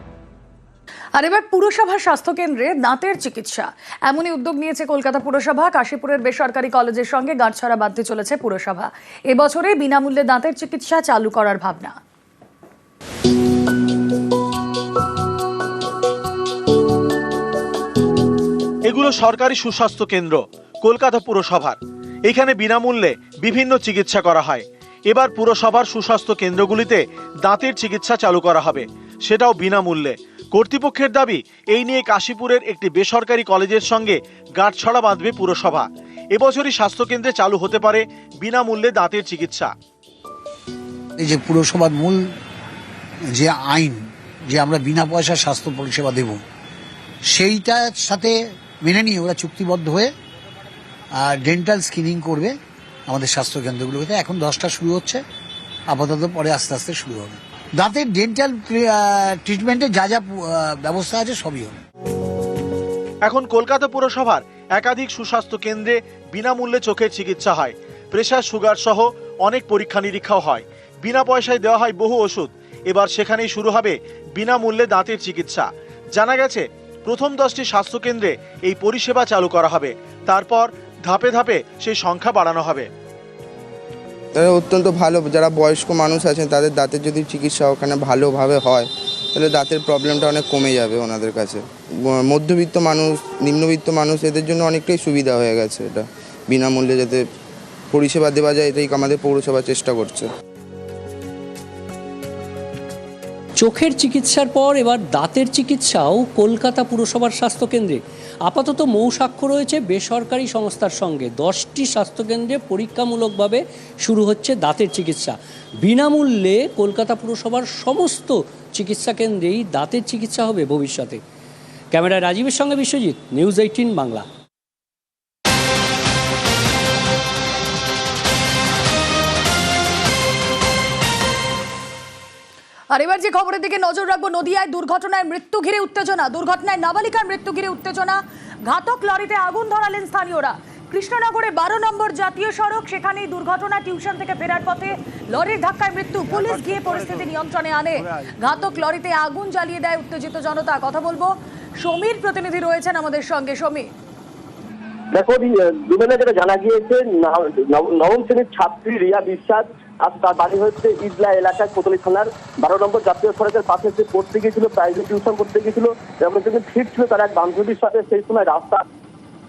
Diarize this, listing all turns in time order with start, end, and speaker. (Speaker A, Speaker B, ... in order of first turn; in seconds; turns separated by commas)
Speaker A: 1.2-11.9, Speaker B: 18.9-39.7, Speaker C: 41.2-42.2, Speaker C: 43.3-46.4, Speaker C: 47.3-50.1, Speaker C: 51.2-52.5, Speaker C: 53.1-55.2, Speaker C: 55.9-61.8, Speaker B: 63.2-82.9, Speaker D: 84.3-97.2, Speaker D: 97.9-100.3, Speaker E: 103.6-121.2, Speaker E: 121.9-124.3, Speaker A: 132.9-153.9, Speaker F: 155.1-168.8